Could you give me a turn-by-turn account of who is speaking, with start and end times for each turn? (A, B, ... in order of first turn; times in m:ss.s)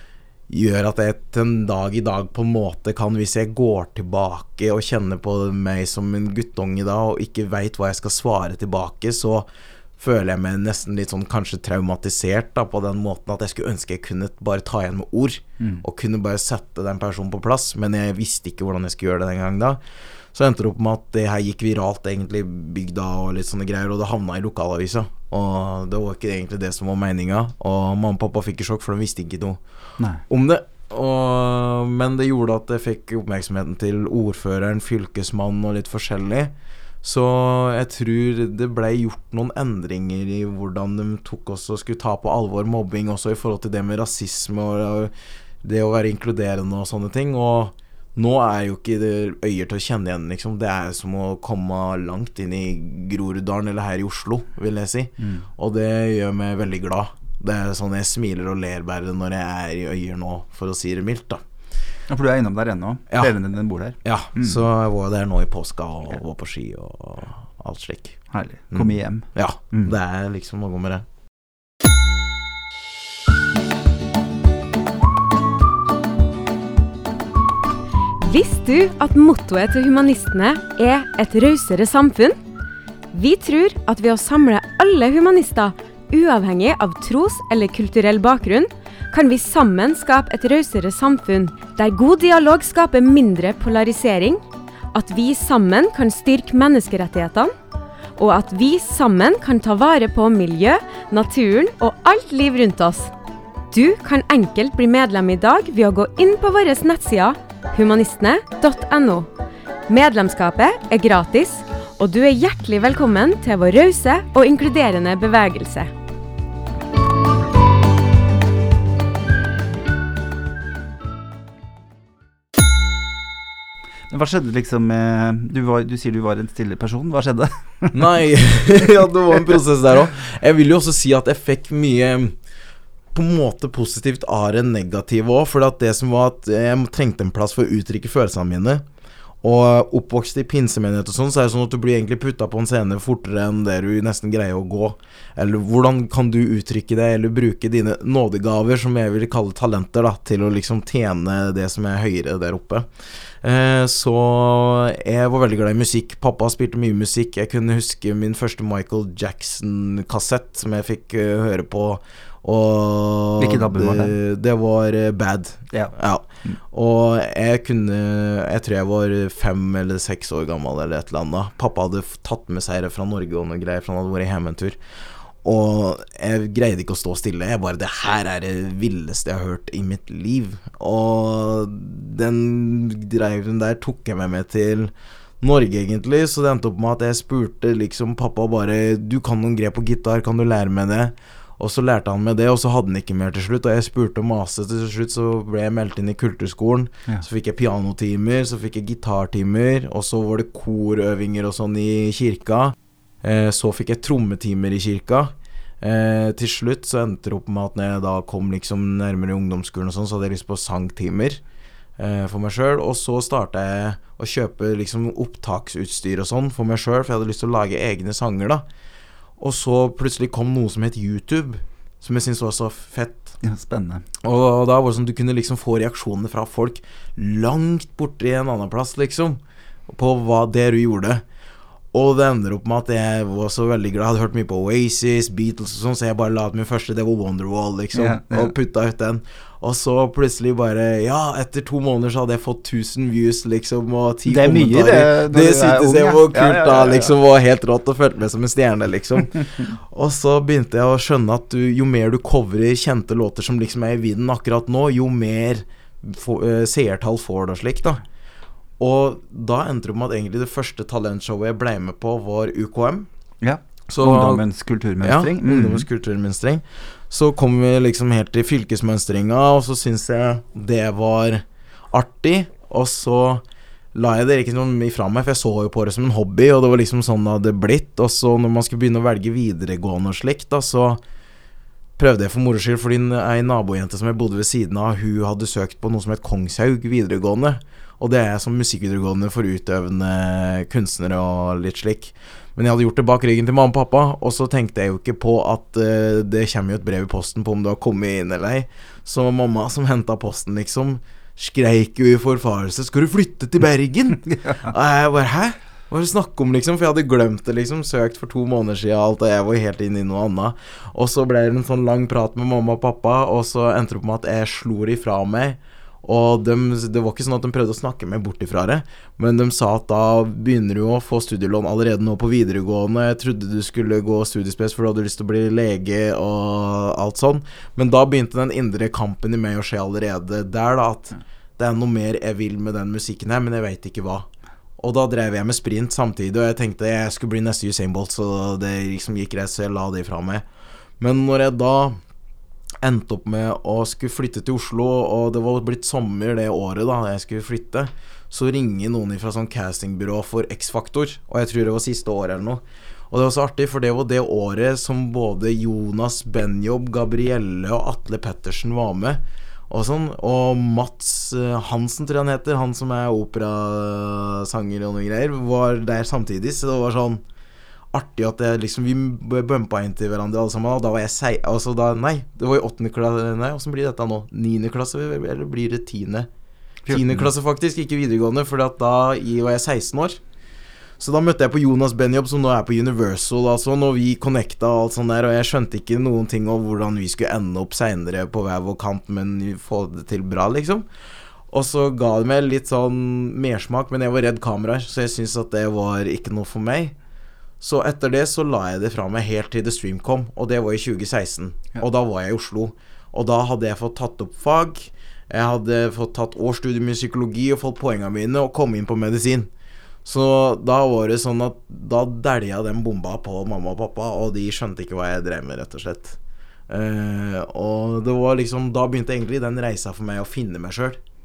0:00.5-0:19.8 A
0:20.3-0:29.6 A
0:30.3-1:01.4 A
0:55.2-0:55.5 B
1:02.1-1:04.6 B
1:04.0-1:08.2 A
1:08.3-1:09.9 B
1:08.7-1:11.1 A
1:18.2-1:22.4 C
1:23.1-1:34.4 C
1:34.9-1:37.5 C
1:38.2-1:43.1 C
1:43.7-1:49.3 C
1:49.9-1:55.9 C
2:04.1-2:08.0 B
2:07.9-2:12.4 A
2:13.1-2:18.8 A
2:19.4-2:32.9 A
2:33.4-2:54.8 A
2:43.4-2:44.2 B
2:55.4-3:31.4 A
3:32.0-3:38.6 A
3:39.4-3:43.4 A
3:43.4-3:44.0 B
3:44.2-3:51.2 A
3:51.9-4:18.0 A
3:57.9-3:58.5 B
4:04.3-4:07.1 B
4:18.8-4:23.1 A
4:23.4-4:25.9 B
4:23.9-4:24.4 A
4:25.0-4:41.0 A
4:42.0-5:40.5 A
5:41.0-5:42.0 A
5:42.8-6:07.2 A
6:07.9-6:16.3 A
6:16.9-6:17.3 B
6:16.9-6:20.2 A
6:21.0-6:30.9 A
6:31.5-6:37.0 A
6:37.6-6:49.5 A
6:50.0-6:56.2 A
6:56.7-7:01.0 A